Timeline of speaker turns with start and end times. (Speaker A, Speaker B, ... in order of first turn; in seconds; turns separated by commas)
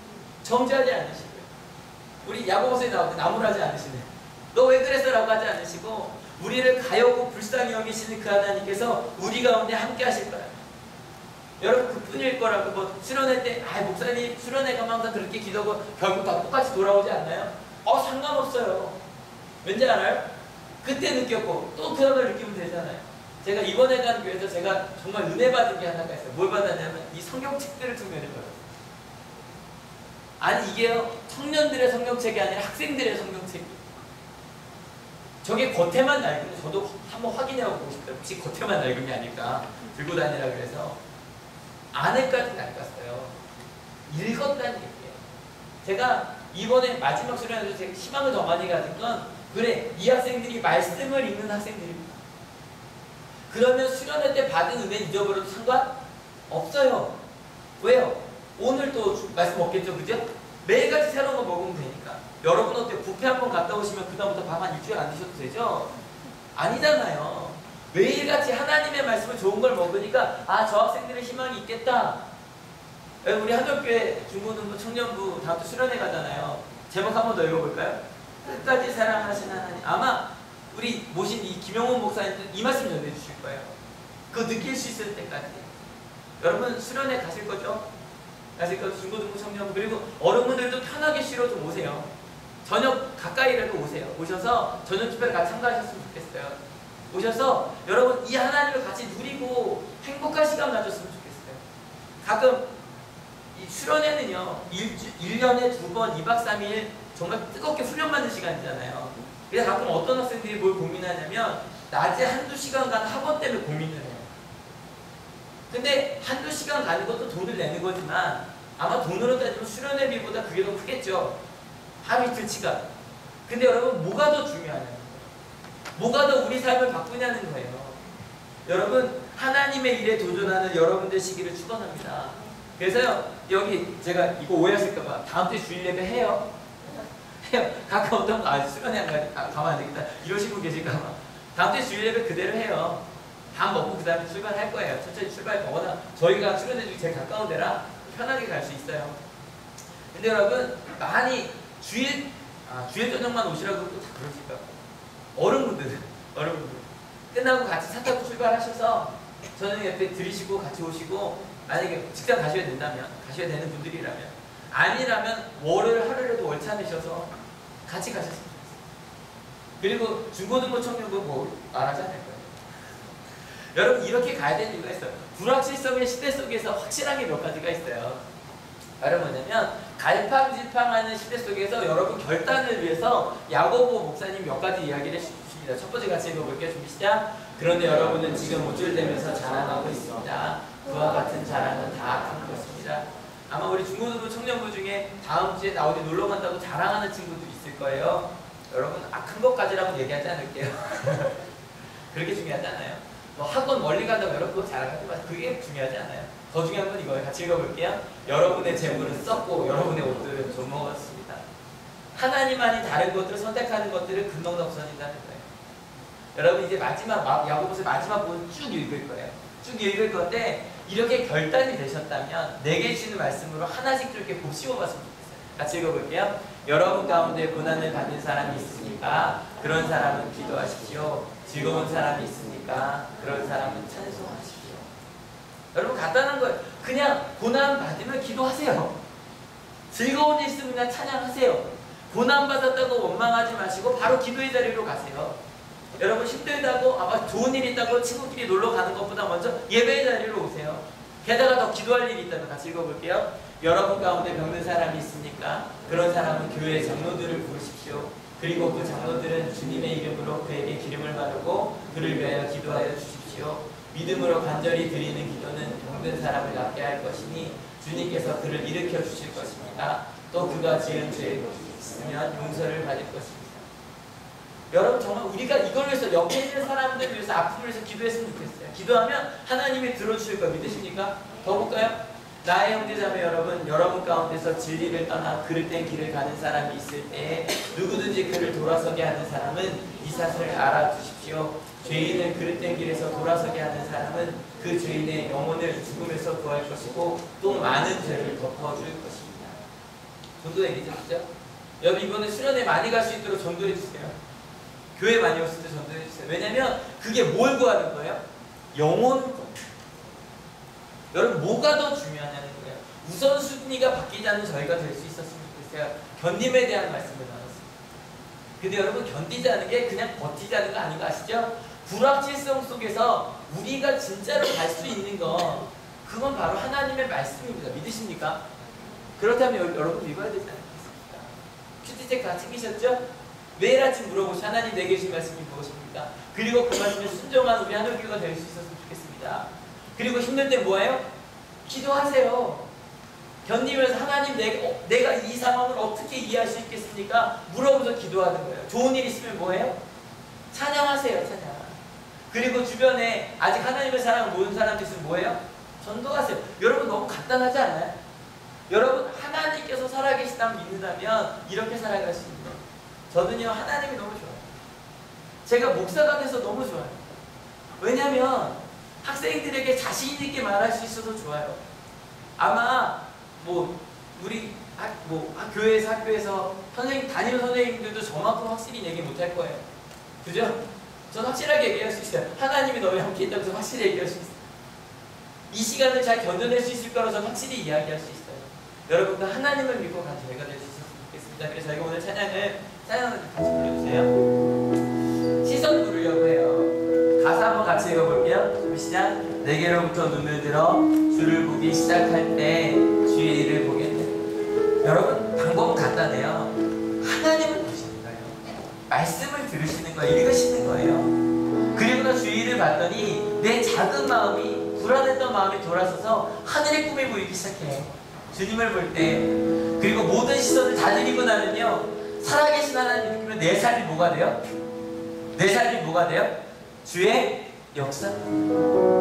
Speaker A: 0.4-1.5, Speaker A: 2.2-10.5, Speaker A: 11.6-19.0, Speaker A: 19.6-20.3, Speaker A: 20.8-28.6, Speaker A: 30.4-33.8, Speaker A: 35.4-41.0, Speaker A: 41.9-43.4, Speaker A: 44.1-45.2, Speaker A: 45.8-52.2, Speaker A: 53.5-55.9, Speaker A: 56.5-57.1, Speaker A: 57.8-65.9, Speaker A: 66.5-72.2, Speaker A: 73.2-83.7, Speaker A: 84.3-85.7, Speaker A: 86.4-87.8, Speaker A: 88.5-92.1, Speaker A: 92.6-96.6, Speaker A: 97.1-101.6, Speaker A: 102.2-102.7, Speaker A: 103.5-114.3, Speaker A: 115.7-121.4, Speaker A: 122.0-122.8, Speaker A: 123.5-125.3, Speaker A: 126.0-128.0, Speaker A: 128.6-136.5, Speaker A: 137.4-149.2, Speaker A: 150.1-154.8, Speaker A: 155.3-167.3, Speaker A: 167.8-168.8, Speaker A: 169.8-172.6, Speaker A: 173.7-178.2, Speaker A: 179.0-201.4, Speaker A: 202.1-211.4, Speaker A: 212.1-215.5, Speaker A: 216.3-234.9, Speaker A: 235.7-239.0, Speaker A: 239.9-245.4, Speaker A: 246.0-273.7, Speaker A: 274.7-299.6, Speaker A: 300.4-301.3, Speaker A: 301.8-304.2, Speaker A: 304.9-308.2, Speaker A: 308.7-309.7, Speaker A: 311.1-317.7, Speaker A: 318.6-328.4, Speaker A: 329.2-333.0, Speaker A: 333.6-341.0, Speaker A: 341.6-342.7, Speaker A: 343.4-349.8, Speaker A: 350.5-351.8, Speaker A: 352.3-358.0, Speaker A: 358.7-364.4, Speaker A: 365.4-367.1, Speaker A: 367.8-371.6, Speaker A: 372.4-379.6, Speaker A: 380.2-384.4, Speaker A: 385.5-394.1, Speaker A: 395.4-404.2, Speaker A: 404.8-411.2, Speaker A: 411.7-424.4, Speaker A: 425.3-428.3